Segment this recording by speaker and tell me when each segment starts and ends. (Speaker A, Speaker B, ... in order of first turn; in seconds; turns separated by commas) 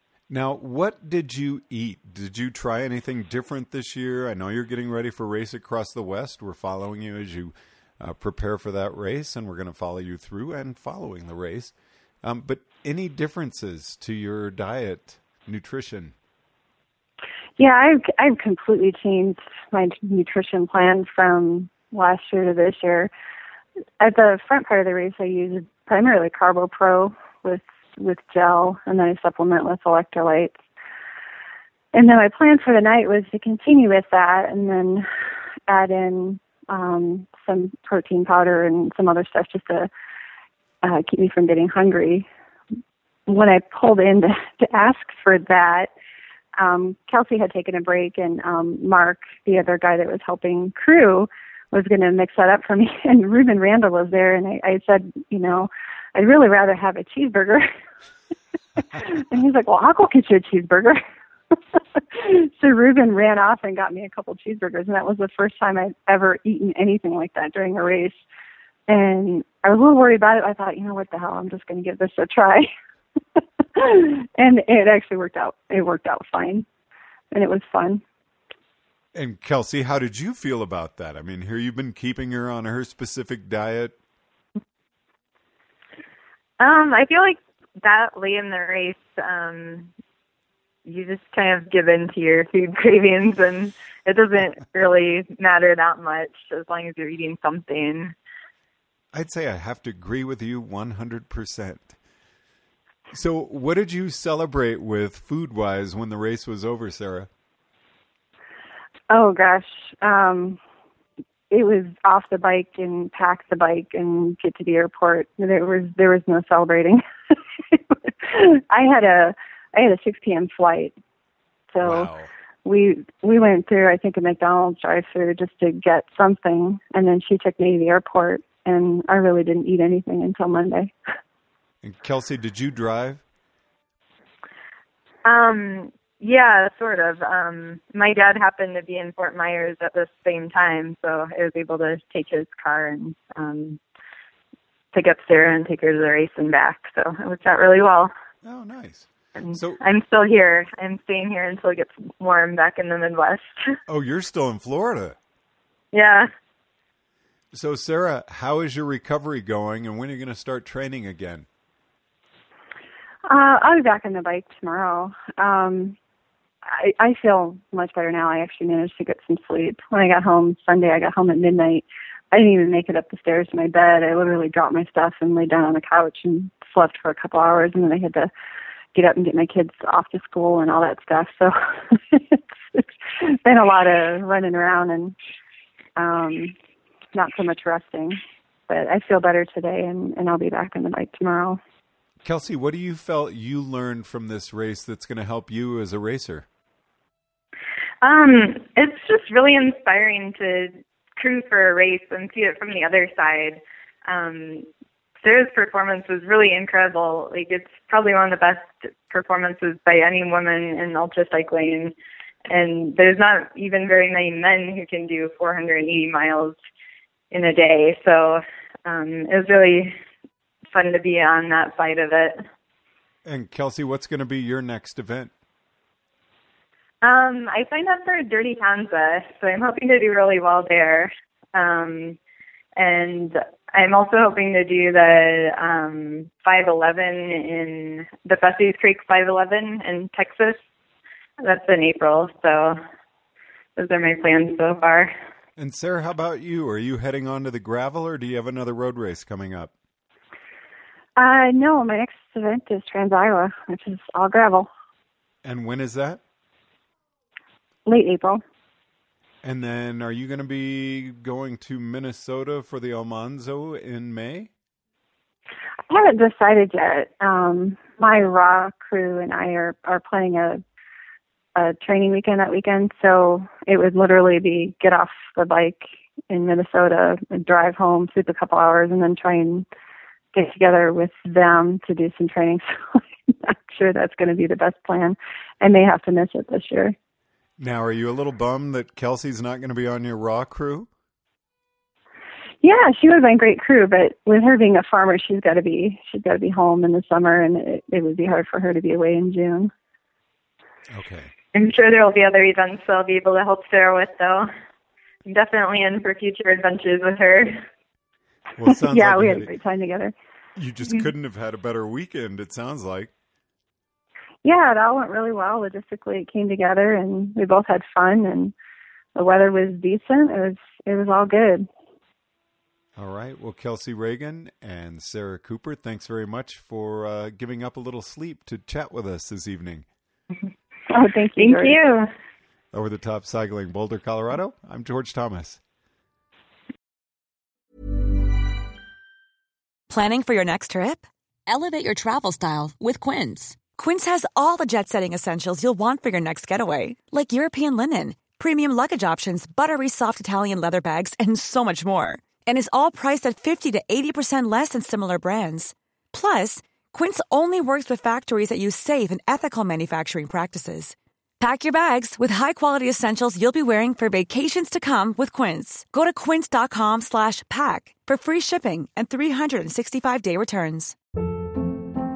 Speaker A: 0.3-16.1, Speaker B: 17.6-23.1, Speaker B: 24.0-30.6, Speaker B: 31.9-35.1, Speaker B: 35.7-39.9, Speaker B: 40.8-42.2, Speaker B: 43.3-45.9, Speaker B: 46.6-57.6, Speaker B: 58.8-61.0, Speaker B: 61.7-68.2, Speaker B: 68.9-72.7, Speaker B: 73.8-76.7, Speaker B: 77.3-78.0, Speaker A: 79.1-84.0, Speaker C: 86.6-89.9, Speaker C: 90.8-98.1, Speaker A: 99.1-101.9, Speaker A: 103.1-107.3, Speaker B: 109.1-110.6, Speaker B: 111.5-117.0, Speaker B: 117.7-120.9, Speaker B: 121.7-122.1, Speaker A: 121.8-122.3, Speaker B: 122.6-130.9, Speaker A: 131.8-133.2, Speaker C: 135.2-143.8, Speaker C: 144.9-148.1, Speaker A: 148.4-149.8, Speaker C: 149.3-153.7, Speaker A: 153.9-155.2, Speaker C: 155.9-156.3, Speaker A: 157.5-161.4, Speaker B: 163.3-165.9, Speaker B: 166.7-178.3, Speaker B: 178.9-185.1, Speaker B: 185.9-186.5, Speaker B: 187.1-191.6, Speaker A: 192.2-196.5, Speaker C: 198.0-204.7, Speaker C: 205.2-211.9, Speaker C: 212.5-216.6, Speaker C: 217.3-219.9, Speaker C: 220.7-222.4, Speaker A: 223.2-225.3, Speaker C: 227.0-232.2, Speaker C: 232.8-240.6, Speaker C: 241.4-242.8, Speaker C: 243.8-245.1, Speaker A: 245.6-249.7, Speaker B: 251.2-254.7, Speaker A: 255.4-256.2, Speaker B: 257.9-258.4, Speaker A: 259.4-264.5, Speaker B: 265.9-270.6, Speaker B: 271.5-279.6, Speaker B: 280.3-286.9, Speaker A: 287.6-290.9, Speaker B: 292.6-299.7, Speaker A: 300.9-301.3, Speaker C: 301.5-304.5, Speaker C: 305.2-307.6, Speaker A: 308.6-309.5, Speaker B: 308.7-310.1, Speaker A: 310.6-313.1, Speaker B: 314.4-318.5, Speaker B: 319.1-321.7, Speaker A: 322.9-329.9, Speaker B: 330.9-331.8, Speaker C: 331.4-332.1, Speaker A: 332.7-335.6, Speaker D: 339.9-341.0, Speaker E: 341.5-343.6, Speaker D: 342.0-342.4, Speaker D: 343.6-370.9